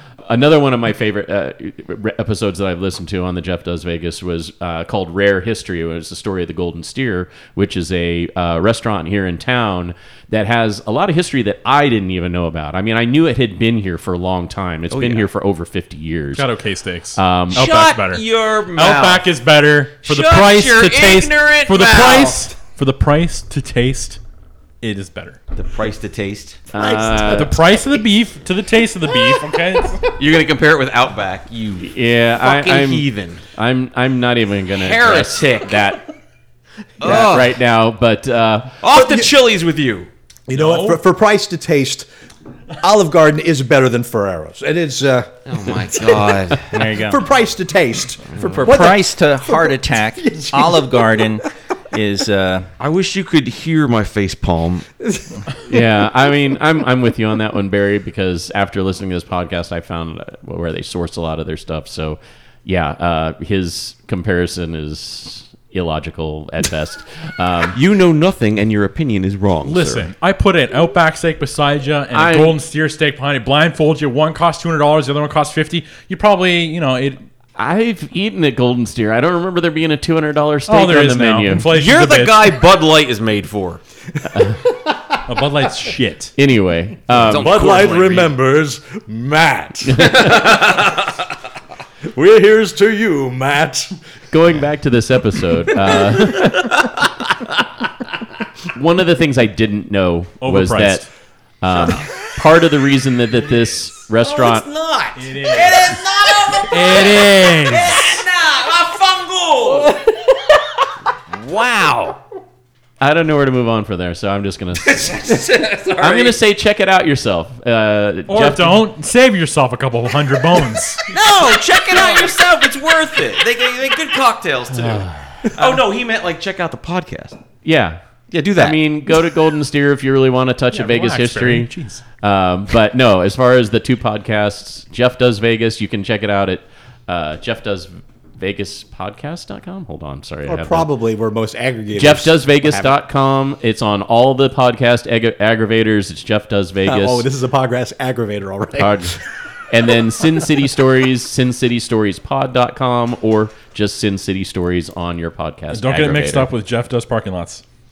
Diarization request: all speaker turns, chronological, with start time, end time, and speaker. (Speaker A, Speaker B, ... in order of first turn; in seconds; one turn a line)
Speaker A: 0.3-16.5
Speaker B: 14.9-15.3
Speaker C: 16.4-24.2
Speaker A: 17.1-17.6
Speaker B: 17.5-19.3
Speaker B: 20.0-22.5
Speaker C: 24.8-25.4
Speaker B: 25.6-27.6
Speaker A: 26.7-27.6
Speaker C: 27.2-30.1
Speaker B: 30.1-33.4
Speaker A: 31.8-36.0
Speaker B: 34.8-35.8
Speaker B: 37.0-37.5
Speaker A: 37.0-38.7
Speaker D: 37.1-37.3
Speaker B: 38.8-40.1
Speaker D: 38.9-39.3
Speaker D: 40.5-42.1
Speaker C: 40.5-41.0
Speaker D: 42.8-46.1
Speaker B: 45.5-46.8
Speaker E: 46.7-47.2
Speaker D: 46.8-51.4
Speaker B: 48.4-48.7
Speaker E: 48.6-52.7
Speaker B: 52.8-54.9
Speaker D: 55.1-55.8
Speaker A: 55.7-67.8
Speaker B: 67.7-70.1
Speaker C: 69.6-77.2
Speaker A: 72.1-72.6
Speaker A: 77.6-81.7
Speaker C: 80.7-82.5
Speaker B: 81.7-83.8
Speaker D: 84.4-85.2
Speaker C: 85.3-86.3
Speaker A: 86.4-87.6
Speaker B: 87.2-88.3
Speaker D: 87.2-91.2
Speaker A: 90.0-90.3
Speaker B: 90.3-90.9
Speaker D: 92.1-94.0
Speaker A: 94.3-96.9
Speaker A: 98.7-101.1
Speaker C: 100.4-101.1
Speaker A: 101.6-104.7
Speaker D: 104.2-104.8
Speaker B: 104.8-109.9
Speaker C: 105.2-105.9
Speaker D: 105.4-106.6
Speaker C: 106.7-108.0
Speaker B: 111.4-112.1
Speaker A: 113.0-115.4
Speaker B: 114.8-116.4
Speaker A: 116.0-118.8
Speaker C: 118.3-121.1
Speaker B: 121.1-127.4
Speaker A: 127.6-128.0
Speaker B: 128.3-129.2
Speaker A: 128.6-140.9
Speaker C: 130.7-132.0
Speaker D: 140.5-143.0
Speaker A: 141.9-147.3
Speaker D: 146.8-149.2
Speaker A: 148.8-149.2
Speaker A: 149.7-156.5
Speaker C: 155.7-157.6